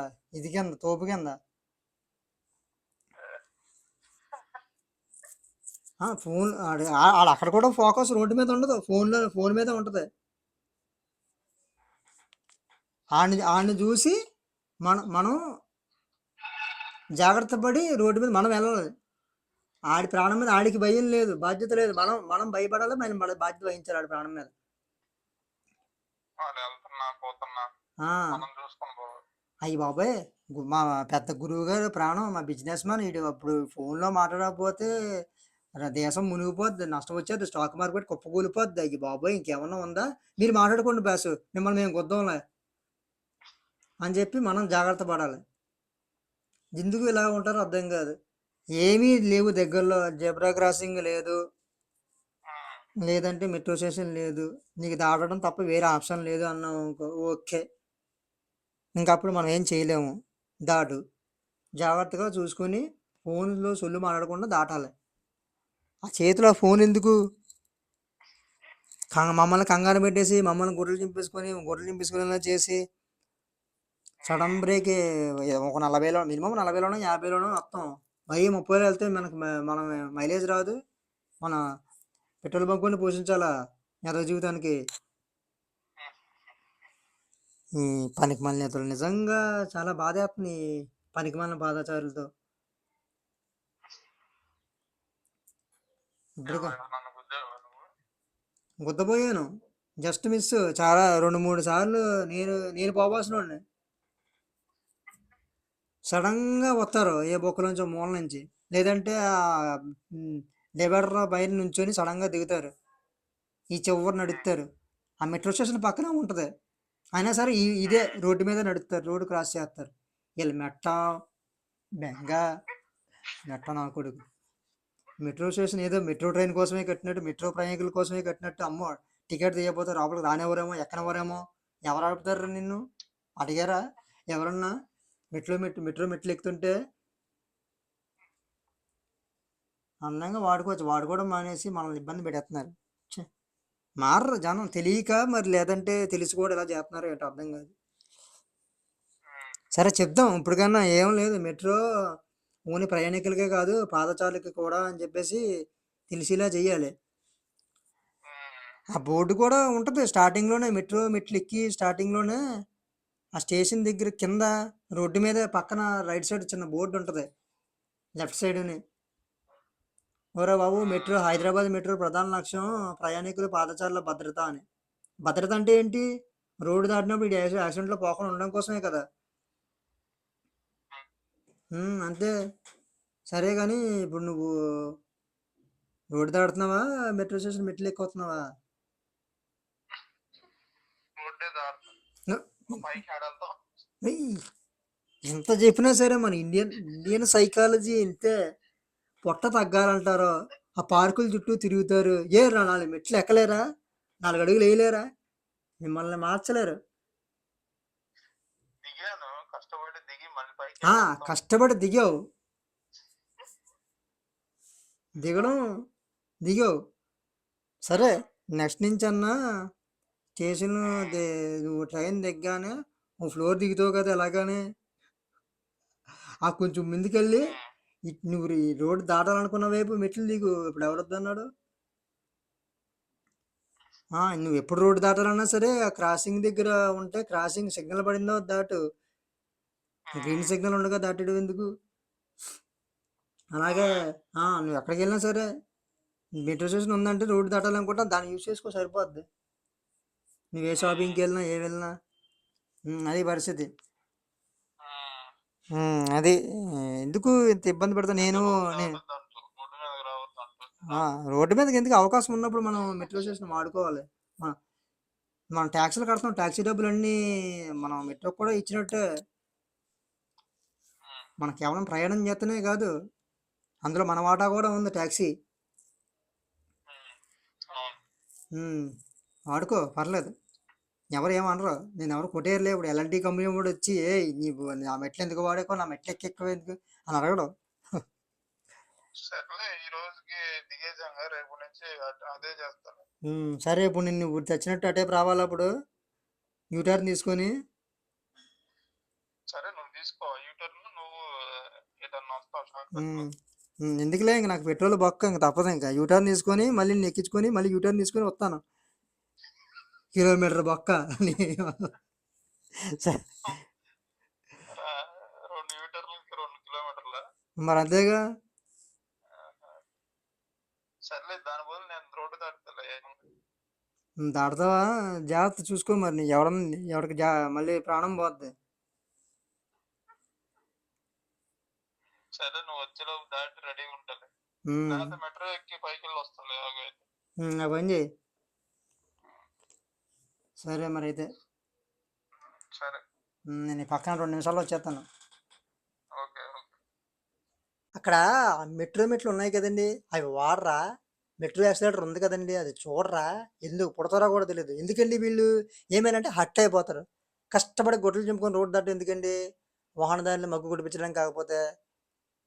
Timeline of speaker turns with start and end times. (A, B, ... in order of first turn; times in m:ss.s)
0:00.3-0:01.4 A
0:06.0-0:10.0 A
0:13.2-0:14.2 A
0:14.8-0:15.4 A
0:17.2-0:18.9 A
0:19.9-0:24.5 A
0:26.4-0:27.7 B
0:28.3-0:29.2 B
0:29.7-0:34.9 A
0:35.8-0:42.4 A
0:44.0-0:45.4 A
0:46.8-0:48.1 A
0:48.8-0:51.4 A
0:52.5-0:52.8 B
0:53.1-0:57.6 A
0:59.0-1:00.1 A
1:00.7-1:01.0 A
1:01.8-1:04.9 A
1:06.1-1:07.1 A
1:09.1-1:12.8 A
1:14.2-1:20.7 A
1:14.3-1:14.6 B
1:22.4-1:23.5 A
1:24.1-1:24.8 A
1:27.8-1:30.6 A
1:31.1-1:32.3 A
1:36.4-1:36.8 A
1:36.5-1:37.9 B
1:38.8-1:39.5 A
1:40.0-1:43.6 A
1:46.1-1:52.7 A
1:53.7-1:54.7 A
1:55.2-1:56.5 A
1:57.2-1:59.9 A
1:57.9-1:58.2 B
2:00.4-2:01.1 A
2:02.0-2:02.4 A
2:03.4-2:04.2 A
2:05.2-2:12.8 A
2:13.4-2:13.8 A
2:14.3-2:14.7 A
2:15.3-2:16.7 A
2:20.0-2:23.2 A
2:24.0-2:27.7 A
2:29.3-2:29.6 B
2:29.8-2:31.8 A
2:32.7-2:35.4 A
2:36.1-2:36.9 A
2:38.3-2:38.8 B
2:39.0-2:42.4 A
2:43.4-2:47.2 A
2:48.2-2:48.8 A
2:50.4-2:54.6 A
2:50.8-2:51.5 B
2:55.3-2:56.0 A
2:56.7-2:59.0 A
3:01.7-3:02.3 A
3:03.3-3:04.5 A
3:06.2-3:08.4 A
3:11.2-3:11.9 B
3:12.3-3:12.7 A
3:12.7-3:13.6 B
3:14.0-3:14.4 A
3:15.3-3:18.3 A
3:19.2-3:23.6 A
3:24.2-3:25.0 A
3:25.8-3:26.8 A
3:28.8-3:31.3 B
3:30.9-3:32.1 A
3:35.2-3:35.6 A
3:36.4-3:36.7 A
3:37.8-3:39.3 A
3:40.4-3:44.6 A
3:40.9-3:41.2 B
3:46.5-3:47.5 A
3:47.4-3:47.6 B
3:48.1-3:51.4 A
3:54.2-3:58.8 A
4:00.1-4:00.5 B
4:00.2-4:01.7 A
4:03.6-4:05.4 A
4:03.7-4:04.0 B
4:06.4-4:09.2 A
4:10.5-4:11.9 A
4:10.8-4:11.2 B
4:12.9-4:13.7 A
4:14.8-4:15.3 B
4:15.8-4:16.4 A
4:17.0-4:19.0 A
4:18.2-4:21.0 B
4:20.9-4:24.5 A
4:25.5-4:27.2 A
4:27.8-4:29.0 A
4:31.4-4:32.9 A
4:33.8-4:35.3 A
4:36.9-4:37.2 B
4:37.7-4:38.0 B
4:38.6-4:38.9 A
4:39.5-4:40.3 A
4:41.1-4:48.0 A
4:49.3-4:53.0 B
4:53.3-4:55.7 A
4:56.7-4:57.5 A
4:59.5-5:03.3 B
5:03.0-5:03.3 A
5:03.8-5:08.6 A
5:10.2-5:11.9 A
5:13.0-5:13.3 A
5:14.7-5:17.2 B
5:17.6-5:18.2 A
5:19.3-5:19.8 B
5:21.1-5:23.2 B
5:24.2-5:28.5 A
5:32.4-5:34.3 B
5:34.7-5:35.2 A
5:34.9-5:37.1 B
5:37.4-5:38.0 A
5:40.6-5:41.3 A
5:42.7-5:43.0 B
5:43.5-5:45.0 A
5:46.2-5:46.8 B
5:48.0-5:50.8 A
5:51.4-5:59.4 A
6:00.0-6:01.6 A